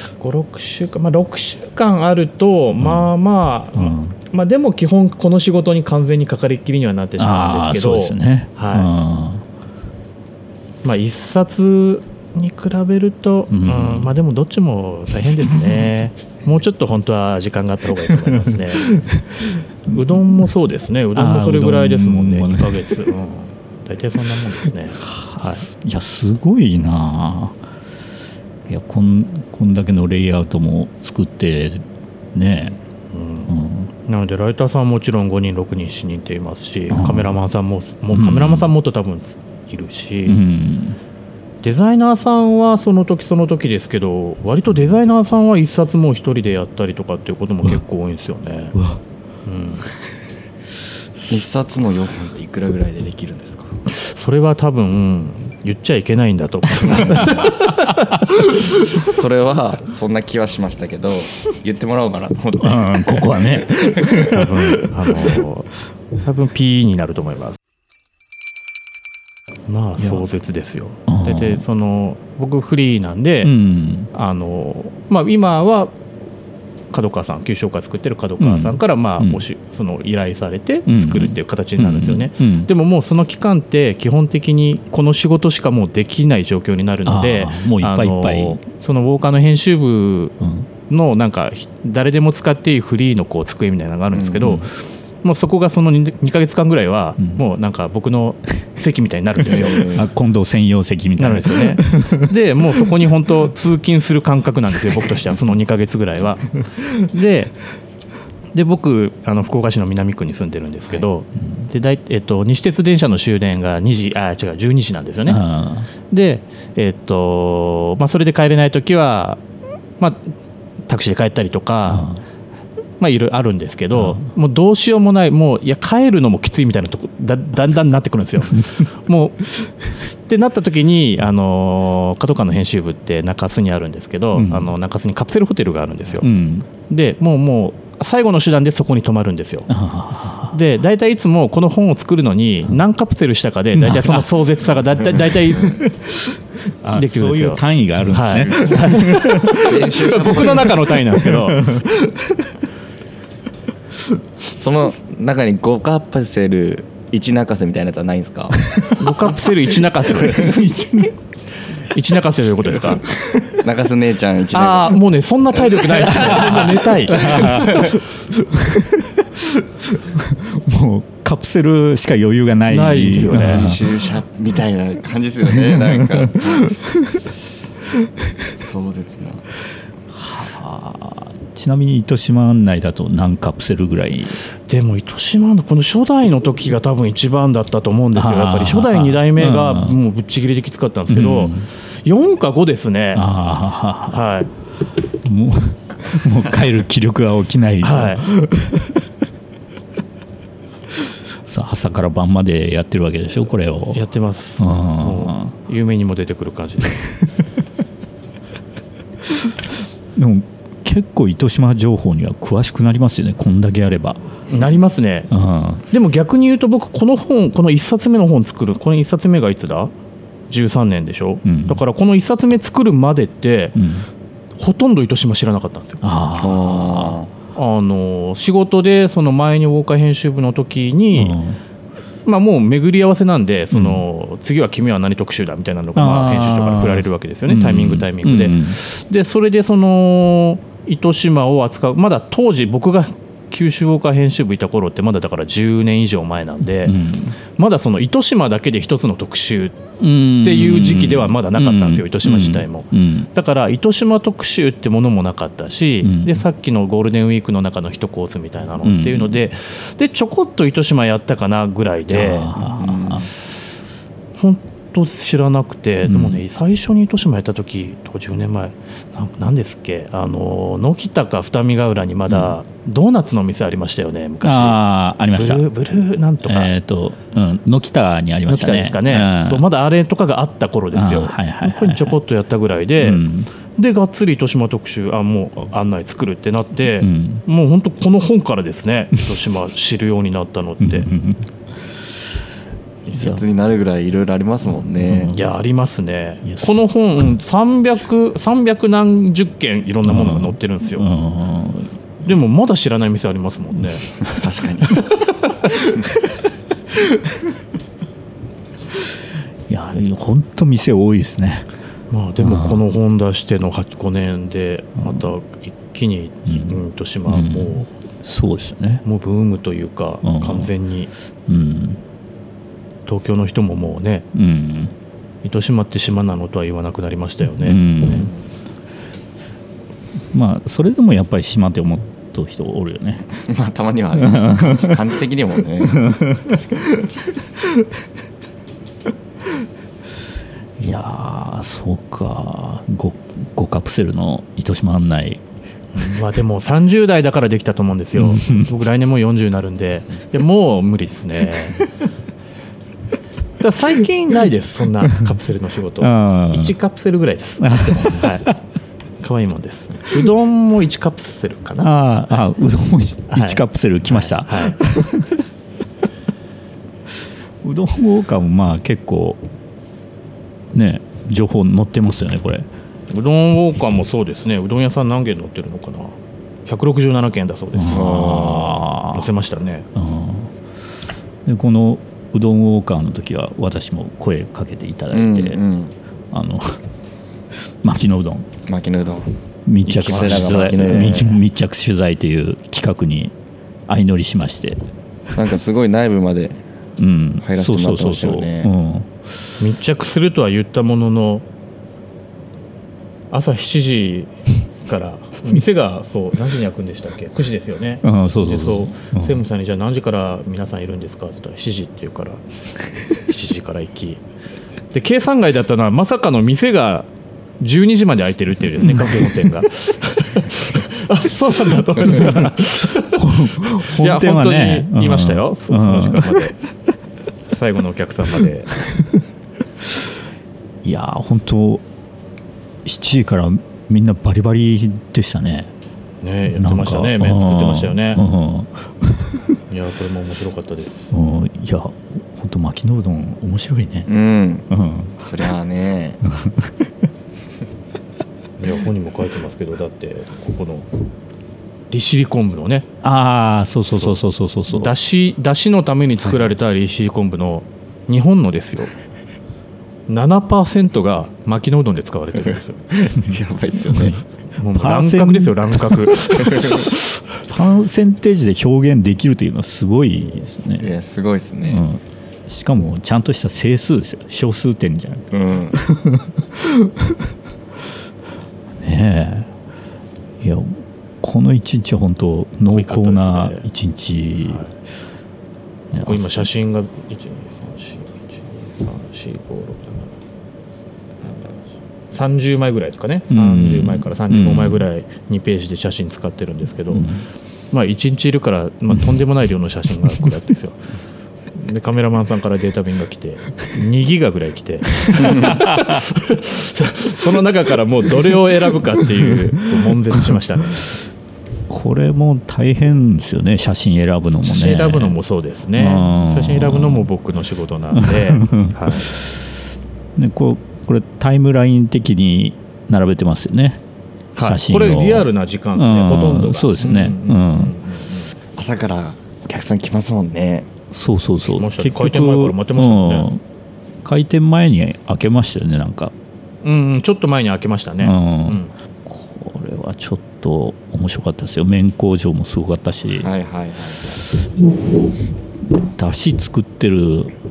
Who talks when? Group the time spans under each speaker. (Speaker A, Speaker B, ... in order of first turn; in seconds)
Speaker A: 0.2-8.9, 10.8-19.0, 19.9-25.7, 33.1-40.4, 41.6-48.8, 49.5-49.9, 53.9-58.0, 64.2-67.6, 69.7-73.5, 74.1-75.9, 76.9-90.4, 90.9-99.9, 101.2-107.5, 108.5-115.4, 116.1-119.4, 120.0-120.3, 120.9-122.1, 123.0-136.3, 136.9-139.8, 140.5-145.8, 146.9-151.8, 159.0-160.5, 161.9-163.0, 164.5-167.8, 172.7-173.8, 184.7-193.3, 194.1-194.5, 197.8-198.2, 203.9-207.2, 214.5-215.3, 215.9-219.9, 220.5-223.8, 224.6-226.0, 227.5-231.4, 232.2-247.0, 247.6-249.8, 250.4-262.5, 264.4-274.8, 275.3-276.7, 278.5-291.1, 295.3-301.1, 302.2-304.1, 312.1-317.9, 319.0-321.1, 323.1-324.2, 325.4-328.3, 345.9-351.8, 353.6-358.5, 359.2-361.9, 363.3-364.8, 373.1-379.9, 389.9-391.4, 399.6-401.4, 403.3-404.3, 404.9-412.4, 413.1-414.2, 414.9-417.1, 417.6-426.6, 427.5-428.8, 436.2-438.2, 439.7-441.1, 448.6-450.9, 451.9-452.9, 454.7-458.9, 460.1-462.8, 464.6-466.9, 482.7-483.6, 484.4-484.7, 486.0-490.2, 491.2-497.2, 497.7-500.8, 501.5-510.9, 514.4-519.1, 524.4-528.3, 531.5-533.3, 536.6-538.7
Speaker B: 2.8-3.1, 3.8-4.1, 7.2-9.4, 13.5-14.1, 18.5-20.4, 21.1-23.1, 25.0-27.6, 28.7-31.8, 32.3-32.8, 33.5-33.9, 36.9-37.3, 38.1-38.7, 40.3-41.0, 48.8-49.0, 56.9-57.5, 62.6-65.4, 71.1-71.6, 73.4-74.1, 78.4-79.4, 80.9-82.7, 87.0-88.6, 90.4-90.7, 94.4-94.7, 99.8-102.3, 115.3-115.9, 121.9-122.2, 124.0-124.2, 134.3-134.7, 136.2-136.7, 139.7-140.6, 143.7-144.2, 145.6-150.0, 150.5-152.5, 158.6-159.3, 160.2-161.1, 166.0-174.0, 175.5-177.2, 180.1-184.4, 188.1-190.0, 191.1-191.7, 193.1-194.2, 195.2-199.1, 201.0-204.0, 204.6-205.5, 210.2-214.2, 215.3-215.8, 221.4-221.8, 223.8-224.1, 226.0-227.2, 231.1-231.6, 233.7-234.0, 236.0-238.8, 246.8-247.3, 250.0-253.3, 256.0-256.4, 258.8-259.4, 262.1-263.3, 266.0-266.4, 272.3-272.5, 274.4-275.7, 276.4-279.6, 280.9-282.2, 283.0-283.5, 287.0-287.4, 290.8-291.5, 293.1-293.4, 295.0-295.4, 296.4-296.8, 300.0-301.9, 309.7-311.7, 312.4-312.8, 315.0-315.3, 316.5-319.0, 320.2-320.7, 321.5-322.0, 324.3-324.9, 327.6-328.3, 330.3-333.3, 334.1-335.0, 335.8-336.6, 340.8-345.4, 348.1-348.7, 355.0-355.3, 356.0-356.8, 357.6-358.5, 361.8-365.4, 367.6-369.4, 370.7-372.7, 377.7-379.3, 379.9-380.5, 381.4-385.6, 386.3-386.8, 387.8-388.5, 389.7-393.3, 393.9-394.8, 397.0-399.1, 408.0-409.4, 418.8-419.5, 422.1-426.5, 430.8-431.8, 432.8-435.7, 436.5-439.6, 441.1-444.1, 444.7-445.1, 446.2-446.8, 453.0-454.9, 463.9-464.2, 464.7-470.9, 471.6-477.3, 478.8-479.5, 480.4-484.6, 485.9-486.5, 493.3-494.9, 496.9-497.2, 505.1-506.0, 509.3-510.4, 511.7-515.2, 515.8-517.1, 517.9-519.4, 520.2-523.8, 524.4-527.8, 530.9-533.4, 534.0-536.1, 538.0-543.3, 545.8-547.3
Speaker C: 51.3-53.7, 57.0-57.3, 58.6-64.3, 94.1-94.5, 99.5-100.1, 148.3-150.8, 154.5-158.7, 160.2-161.0, 163.5-165.0, 165.7-166.7, 167.2-168.0, 173.2-176.7, 178.5-179.4, 226.4-227.3, 262.6-263.3, 293.1-295.3, 304.2-305.0, 333.4-336.0, 377.9-378.7, 385.1-385.9, 388.7-389.3, 390.0-391.3, 395.3-396.6, 397.4-398.7, 444.1-444.7, 445.2-446.2, 462.9-464.2, 466.5-466.8, 470.8-471.8, 475.3-475.8, 528.5-530.7, 543.2-544.2